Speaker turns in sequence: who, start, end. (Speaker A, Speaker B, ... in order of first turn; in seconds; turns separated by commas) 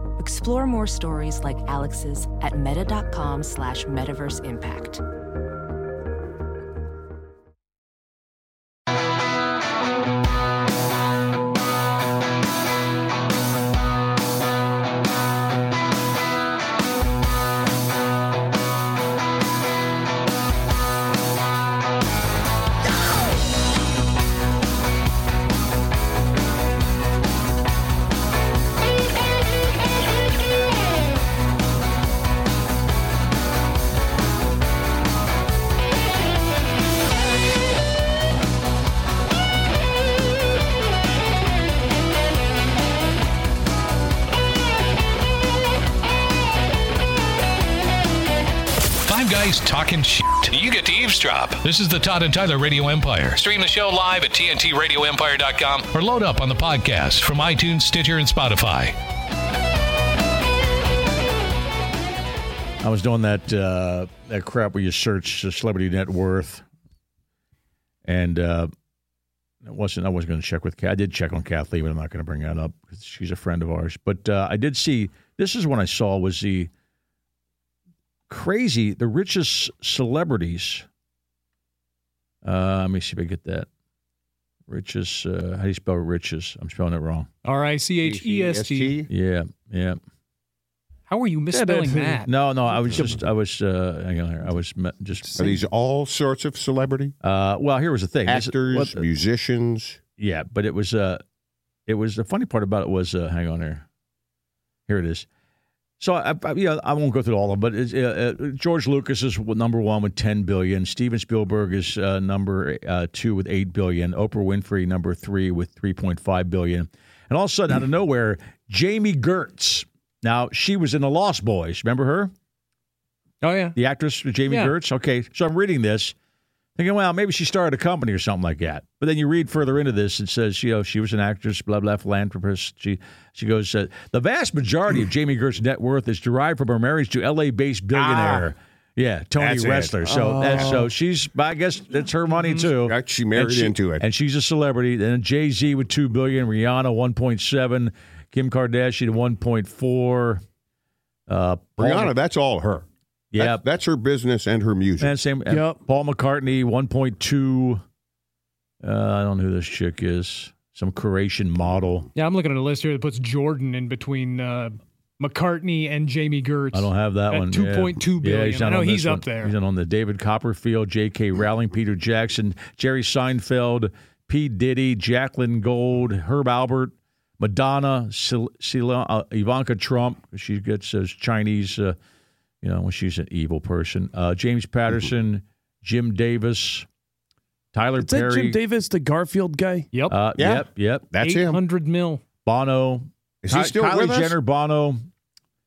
Speaker A: 0.2-5.0, Speaker B: 48.9-59.0, Speaker C: 62.8-66.7, Speaker C: 68.0-68.7, Speaker C: 69.6-76.7, Speaker C: 78.3-80.8, Speaker C: 82.4-83.7, Speaker C: 84.7-87.3, Speaker D: 87.4-88.9, Speaker E: 88.0-89.1, Speaker C: 89.1-90.0, Speaker D: 91.1-92.3, Speaker F: 91.5-92.3, Speaker C: 92.2-95.5, Speaker E: 92.8-93.2, Speaker F: 92.9-93.1, Speaker F: 95.2-95.6, Speaker E: 95.4-97.1, Speaker C: 97.2-99.0, Speaker E: 98.2-100.0, Speaker C: 100.2-101.2, Speaker C: 101.9-103.8, Speaker C: 104.9-105.2, Speaker C: 106.0-122.3, Speaker D: 123.4-123.8, Speaker C: 123.7-126.1, Speaker D: 124.5-124.7, Speaker C: 126.8-150.4, Speaker E: 137.9-138.5, Speaker E: 139.4-140.8, Speaker F: 140.0-140.9, Speaker E: 142.6-144.0, Speaker C: 151.3-152.1, Speaker E: 151.8-152.8, Speaker C: 153.3-153.6, Speaker E: 153.4-155.2, Speaker C: 155.0-157.8, Speaker F: 155.5-155.8, Speaker C: 158.8-162.1, Speaker D: 162.1-169.5, Speaker C: 166.7-181.9, Speaker C: 182.6-186.8, Speaker C: 187.7-188.6, Speaker F: 188.0-189.9, Speaker C: 190.1-191.0, Speaker E: 190.4-191.6, Speaker D: 191.2-192.2, Speaker C: 192.4-195.1, Speaker E: 193.4-194.3